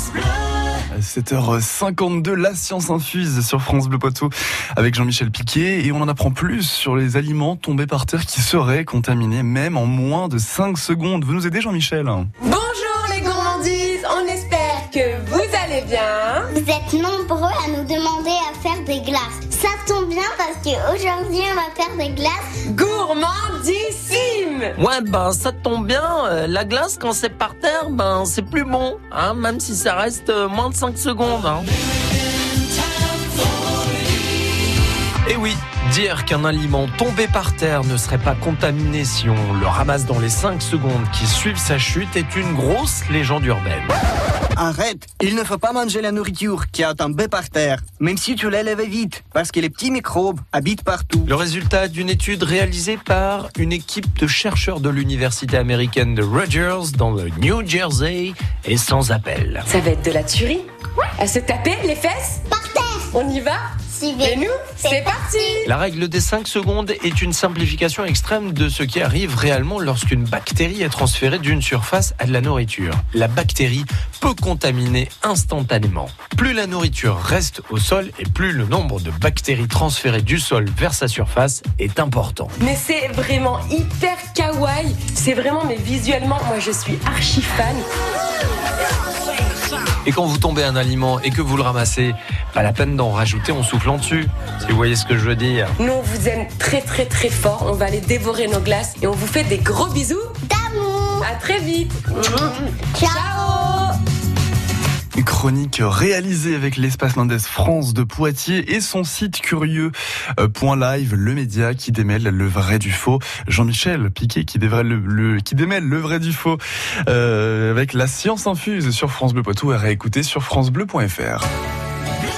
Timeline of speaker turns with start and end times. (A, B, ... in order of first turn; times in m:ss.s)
0:00.9-0:12.3 A
0:12.4-0:16.5 B
0:16.5-0:22.6 C
0:22.6-0:24.8 B
0:24.8-0:31.7 D
0:35.2-0:43.9 D
0:44.6-0:51.3 E
0:51.2-0:59.6 D
0:59.7-1:02.4 B
1:02.5-1:03.1 C
1:03.1-1:05.6 B
1:03.9-1:05.7 C
1:05.6-1:22.5 D
1:22.6-1:27.8 B
1:30.0-1:35.7 D
1:35.8-1:40.4 B
1:40.4-1:41.3 C
1:41.2-1:43.9 B
1:42.2-1:43.8 C
1:45.2-2:01.4 A